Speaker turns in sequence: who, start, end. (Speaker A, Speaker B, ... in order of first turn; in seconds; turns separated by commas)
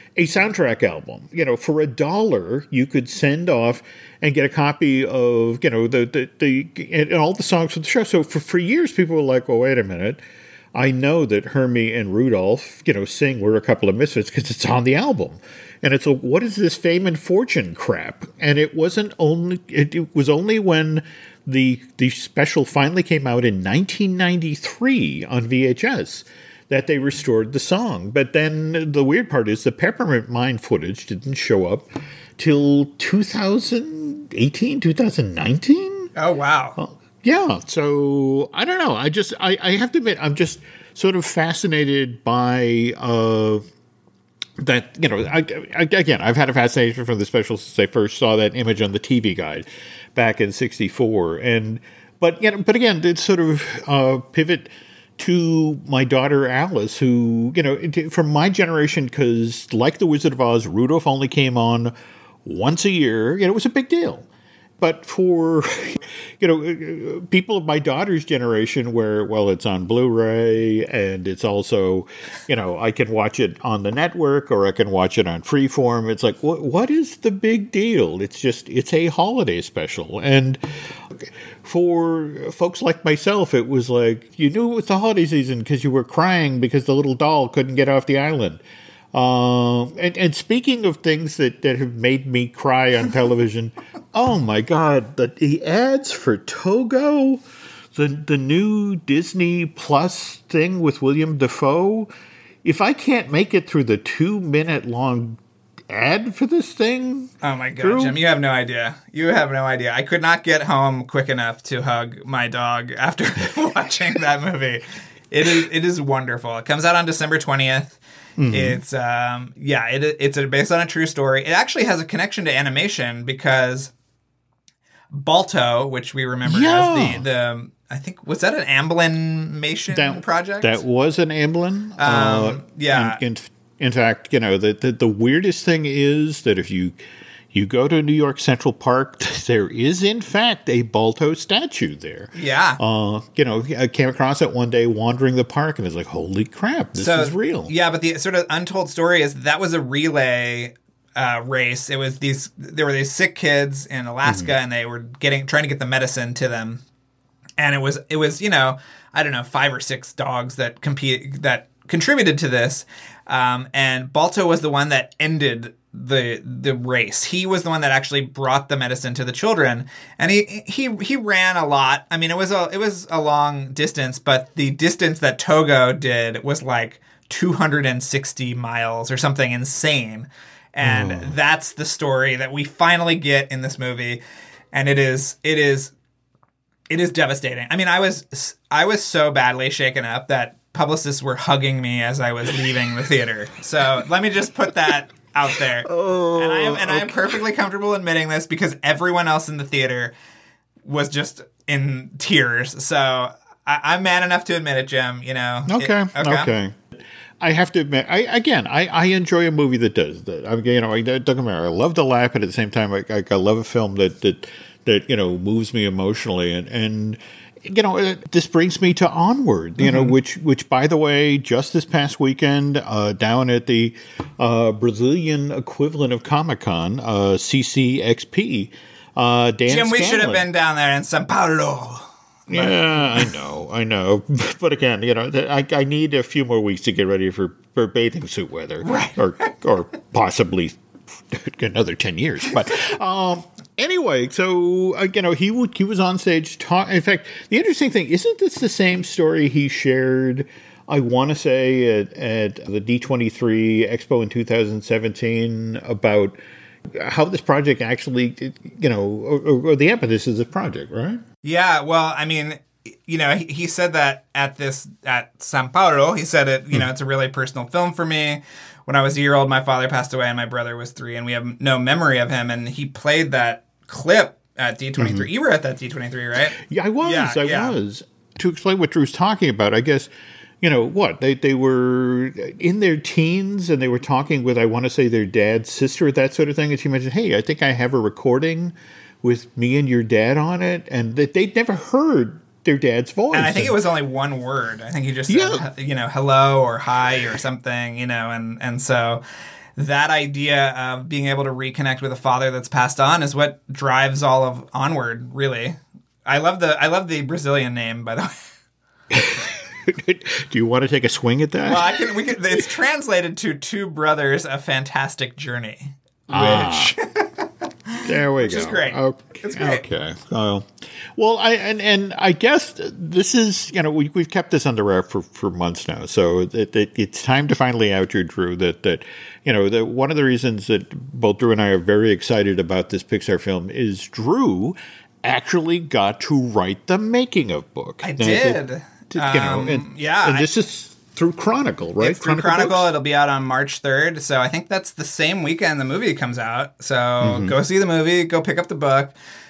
Speaker A: 0.2-10.2, Speaker A: 10.8-31.9, Speaker A: 32.4-36.1, Speaker B: 36.2-36.8, Speaker A: 36.8-43.6, Speaker A: 44.6-61.9, Speaker A: 62.5-64.3, Speaker A: 64.8-80.6, Speaker A: 81.2-88.6, Speaker A: 89.1-97.4, Speaker A: 98.0-102.1, Speaker A: 102.6-105.4, Speaker A: 105.9-108.2, Speaker B: 107.4-118.0, Speaker A: 118.4-118.8, Speaker B: 118.5-123.9, Speaker B: 125.1-130.8, Speaker A: 126.5-127.3, Speaker A: 129.9-137.0, Speaker B: 132.0-133.2, Speaker A: 137.5-147.7, Speaker B: 142.3-142.8, Speaker B: 147.0-156.8, Speaker A: 154.2-154.6, Speaker B: 157.6-184.2, Speaker A: 180.8-181.3, Speaker B: 184.7-185.9, Speaker B: 186.9-200.1, Speaker A: 195.8-197.4, Speaker B: 200.8-206.5, Speaker A: 205.7-206.8, Speaker A: 207.4-230.5, Speaker B: 219.8-220.1, Speaker B: 229.7-233.3, Speaker A: 232.5-240.8, Speaker B: 238.8-239.2, Speaker A: 241.3-256.4, Speaker A: 256.9-261.2, Speaker B: 261.4-277.8, Speaker A: 275.0-275.3, Speaker A: 276.6-280.1, Speaker A: 280.6-293.8, Speaker B: 293.3-299.2, Speaker A: 295.3-295.7, Speaker B: 299.8-308.3, Speaker A: 309.1-312.4, Speaker B: 311.7-319.8, Speaker A: 316.3-316.9, Speaker A: 318.0-342.9, Speaker B: 338.0-340.5, Speaker B: 342.0-349.1, Speaker A: 347.2-347.6